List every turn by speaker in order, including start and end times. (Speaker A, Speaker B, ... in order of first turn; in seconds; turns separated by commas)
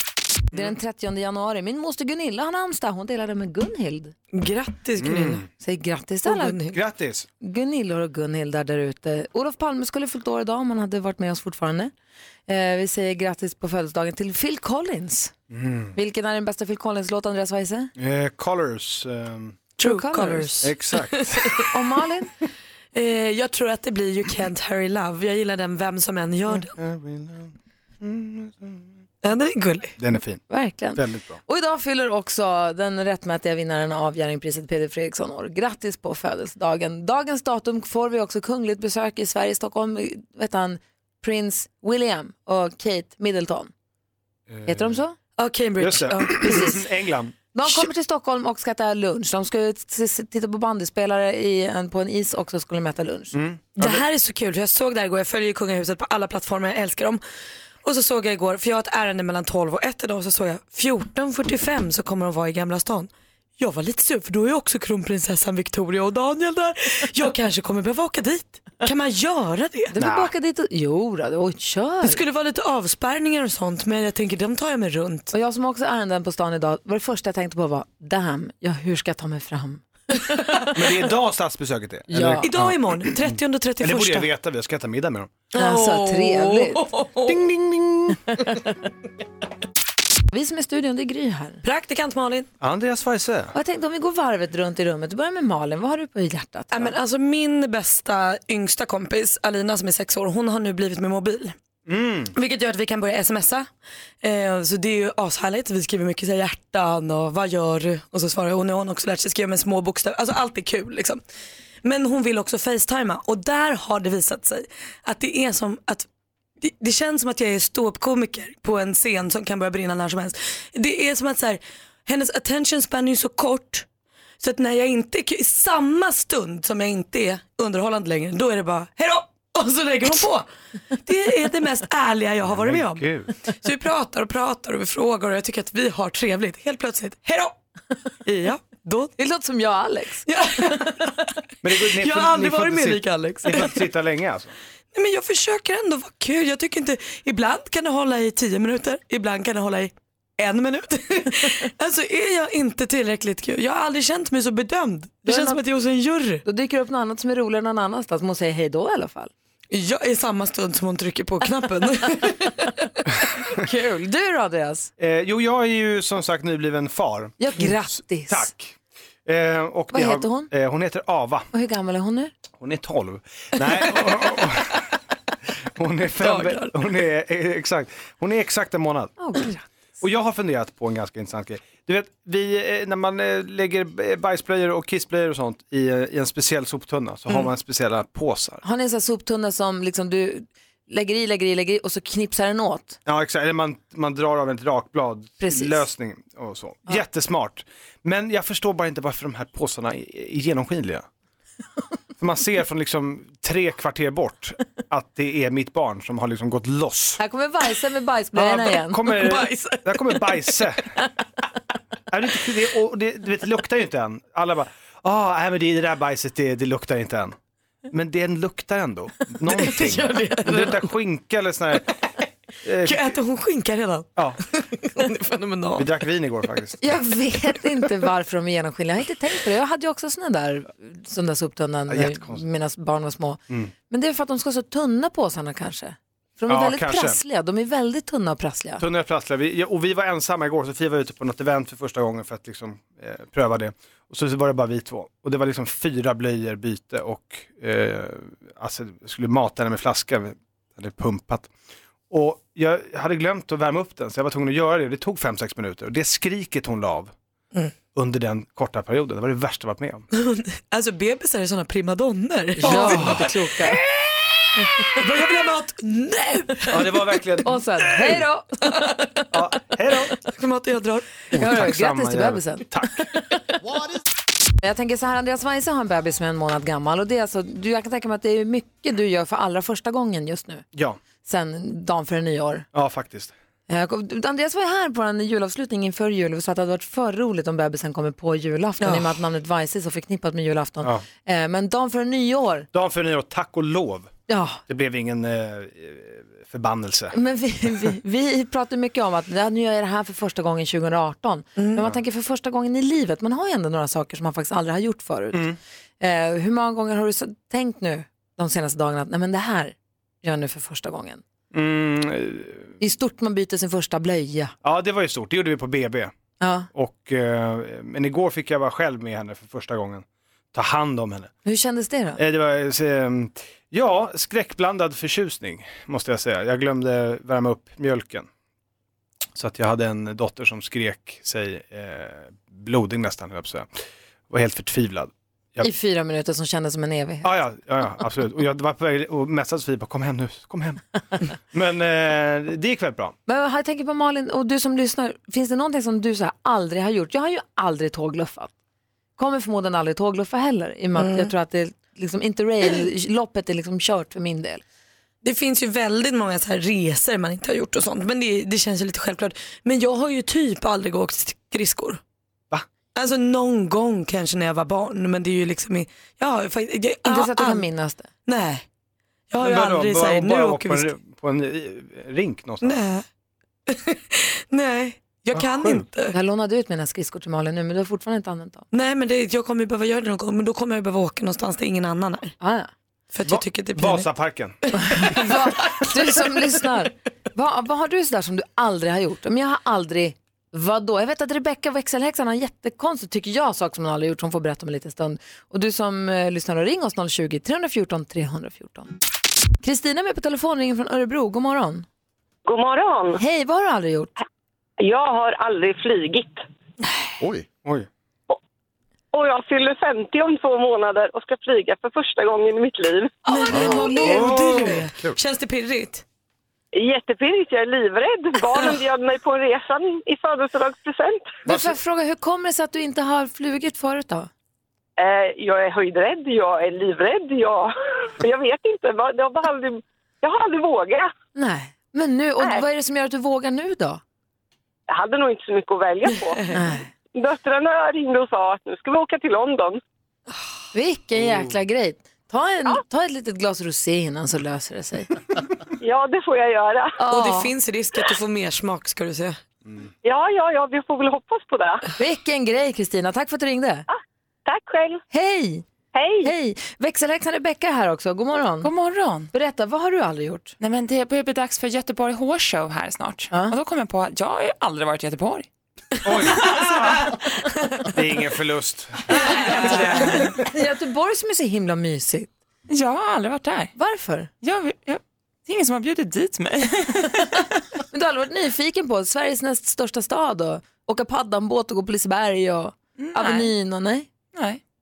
Speaker A: 0.5-4.1, Speaker B: 4.3-5.4, Speaker C: 5.0-5.4, Speaker A: 5.6-6.6, Speaker B: 6.2-6.8, Speaker C: 6.7-7.3, Speaker A: 7.4-11.9, Speaker A: 12.5-15.3, Speaker C: 15.5-15.9, Speaker A: 15.9-17.9, Speaker C: 17.9-19.6, Speaker B: 19.8-21.7, Speaker A: 19.8-20.5, Speaker C: 20.6-21.6, Speaker A: 21.7-22.3, Speaker B: 22.9-26.7, Speaker C: 26.5-28.9, Speaker B: 29.2-29.9, Speaker C: 30.0-30.4, Speaker A: 30.5-43.7, Speaker C: 30.9-31.4, Speaker C: 44.5-45.0, Speaker A: 44.6-45.1, Speaker B: 45.4-46.8, Speaker C: 45.8-47.3, Speaker A: 46.4-46.8, Speaker A: 47.5-53.3, Speaker C: 53.3-54.0, Speaker B: 53.8-57.2, Speaker B: 57.8-69.9, Speaker A: 69.9-72.2, Speaker C: 69.9-70.3, Speaker B: 72.0-75.3, Speaker A: 75.3-80.7, Speaker C: 80.7-85.3, Speaker A: 82.1-82.5, Speaker B: 82.4-84.3, Speaker B: 85.5-87.4, Speaker A: 85.6-86.8, Speaker C: 87.3-88.2, Speaker A: 88.3-88.6, Speaker A: 90.3-91.6, Speaker B: 91.6-92.5, Speaker C: 92.6-93.5, Speaker A: 93.5-96.9, Speaker B: 96.7-101.5, Speaker C: 101.9-102.3, Speaker B: 102.3-103.7, Speaker B: 104.2-111.2, Speaker B: 111.8-116.0, Speaker B: 116.6-123.8, Speaker B: 124.4-130.4, Speaker B: 131.0-133.0, Speaker C: 132.4-133.3, Speaker B: 133.6-137.5, Speaker B: 138.2-139.1, Speaker A: 139.2-140.3, Speaker B: 140.3-141.1, Speaker C: 141.6-144.5, Speaker B: 141.9-143.8, Speaker B: 144.9-156.4, Speaker A: 155.2-155.6, Speaker A: 156.4-159.3, Speaker B: 159.7-162.8, Speaker A: 163.5-164.9, Speaker C: 165.0-171.5, Speaker A: 167.4-168.5, Speaker A: 169.9-170.5, Speaker A: 171.5-172.3, Speaker C: 172.6-174.8, Speaker C: 175.8-179.2, Speaker B: 176.2-176.7, Speaker A: 179.2-179.6, Speaker C: 180.0-188.6, Speaker A: 188.6-193.0, Speaker C: 193.1-201.1, Speaker A: 195.4-195.9, Speaker C: 202.2-207.2, Speaker A: 207.2-209.1, Speaker C: 208.3-210.9, Speaker B: 209.1-210.6, Speaker C: 212.1-217.3, Speaker C: 217.9-221.9, Speaker B: 219.4-220.8, Speaker C: 222.6-223.1, Speaker B: 222.8-225.9, Speaker C: 225.8-226.8, Speaker A: 226.8-238.8, Speaker C: 231.9-232.4, Speaker C: 236.5-237.2, Speaker C: 238.8-251.5, Speaker C: 252.1-257.1, Speaker C: 257.9-260.1, Speaker B: 260.1-267.1, Speaker A: 262.6-263.8, Speaker C: 262.7-263.3, Speaker C: 266.7-268.2, Speaker A: 267.4-268.9, Speaker B: 268.9-269.2, Speaker C: 269.3-270.1, Speaker B: 270.2-271.1, Speaker C: 271.3-273.1, Speaker A: 271.3-273.4, Speaker A: 274.6-280.6, Speaker A: 281.2-282.6, Speaker C: 282.7-283.3, Speaker A: 283.7-292.7, Speaker B: 288.8-289.1, Speaker C: 292.7-294.1, Speaker A: 294.3-294.6, Speaker C: 294.7-297.1, Speaker A: 297.1-311.2, Speaker C: 305.3-305.6, Speaker C: 311.5-312.7, Speaker A: 312.8-314.5, Speaker C: 314.6-316.1, Speaker A: 316.4-316.7, Speaker C: 316.7-321.3, Speaker A: 321.4-322.2, Speaker C: 322.2-328.3, Speaker C: 329.3-333.7, Speaker C: 334.3-335.7, Speaker A: 335.6-337.3, Speaker C: 337.2-340.8, Speaker C: 341.5-343.1, Speaker A: 343.3-348.5, Speaker A: 349.2-354.6, Speaker B: 351.0-351.3, Speaker B: 355.2-362.0, Speaker B: 362.9-367.7, Speaker A: 367.0-368.1, Speaker B: 368.2-368.6, Speaker B: 369.3-370.9, Speaker C: 369.4-372.8, Speaker B: 372.6-373.0, Speaker B: 373.7-376.1, Speaker C: 375.3-375.8, Speaker A: 376.1-378.6, Speaker B: 378.7-382.3, Speaker A: 382.4-382.7, Speaker B: 383.1-384.1, Speaker C: 383.2-384.6, Speaker B: 384.7-386.6, Speaker A: 384.9-398.9, Speaker A: 399.6-401.9, Speaker D: 402.4-403.2, Speaker A: 403.1-404.1, Speaker D: 404.8-406.4, Speaker D: 409.1-413.2, Speaker B: 413.2-416.0, Speaker A: 413.3-414.3, Speaker C: 414.0-415.1, Speaker D: 416.7-421.4, Speaker A: 421.4-424.3, Speaker D: 425.0-431.1, Speaker A: 431.3-434.0, Speaker D: 434.9-436.4, Speaker B: 436.1-436.6, Speaker A: 436.5-436.9, Speaker D: 437.1-439.8, Speaker A: 440.7-445.2, Speaker D: 445.8-447.0, Speaker A: 447.0-447.5, Speaker B: 447.1-449.4, Speaker D: 450.0-451.8, Speaker A: 452.0-453.9, Speaker D: 454.4-455.0, Speaker A: 455.1-455.6, Speaker D: 455.9-456.3, Speaker A: 456.2-458.7, Speaker E: 458.6-459.3, Speaker A: 459.3-460.6, Speaker E: 460.6-465.5, Speaker C: 466.0-467.2, Speaker B: 466.4-466.8, Speaker C: 467.9-470.1, Speaker E: 469.3-470.3, Speaker A: 470.3-472.3, Speaker E: 472.7-473.7, Speaker A: 473.7-474.3, Speaker E: 474.4-477.4, Speaker A: 477.9-484.1, Speaker E: 483.0-483.5, Speaker E: 484.3-484.6